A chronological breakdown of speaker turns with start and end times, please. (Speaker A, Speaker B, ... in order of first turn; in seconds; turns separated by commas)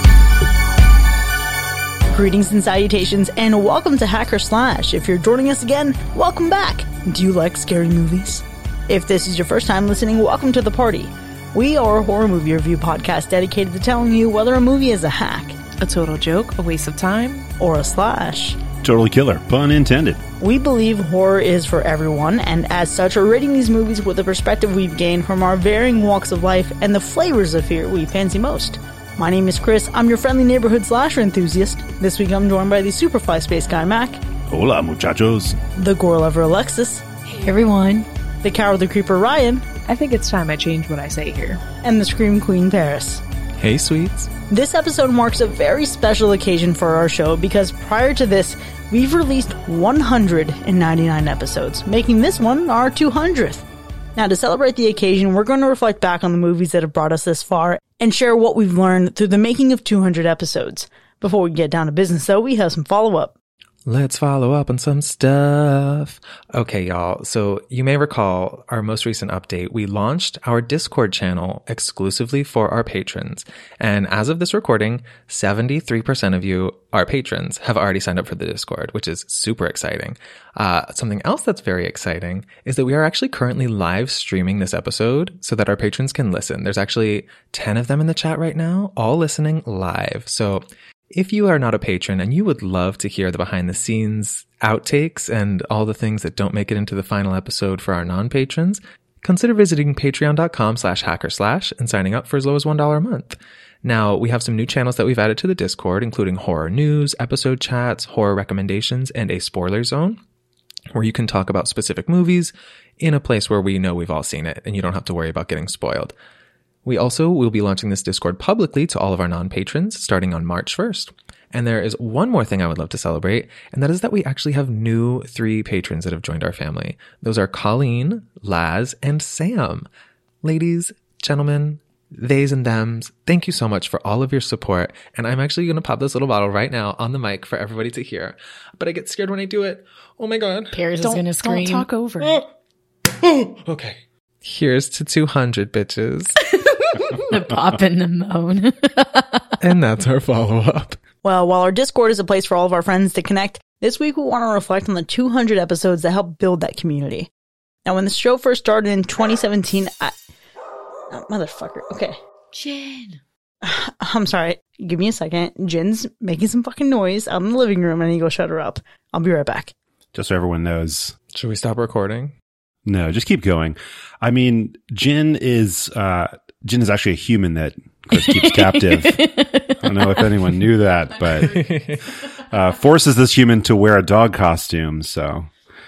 Speaker A: 2.1-15.5, Speaker B: 15.8-17.5, Speaker A: 17.6-18.6, Speaker C: 18.8-20.2, Speaker A: 20.4-34.2, Speaker C: 34.5-35.6, Speaker A: 35.8-37.0, Speaker D: 37.2-38.1, Speaker A: 38.4-39.6, Speaker B: 39.9-41.6, Speaker A: 41.8-43.2, Speaker E: 43.6-44.3, Speaker A: 44.5-53.6, Speaker A: 54.1-63.3, Speaker E: 63.9-110.2, Speaker E: 110.9-116.1, Speaker E: 116.8-129.9, Speaker E: 130.4-140.8, Speaker D: 140.7-141.9, Speaker B: 141.0-142.4, Speaker E: 143.1-146.4, Speaker D: 146.9-149.6, Speaker E: 149.6-151.0, Speaker A: 151.2-157.3, Speaker A: 157.8-160.1, Speaker A: 161.1-162.2, Speaker D: 162.5-163.2, Speaker A: 163.6-169.7, Speaker C: 170.1-171.1, Speaker E: 171.3-172.3, Speaker C: 172.8-181.7, Speaker D: 178.1-180.3, Speaker E: 181.4-182.0, Speaker C: 182.5-185.5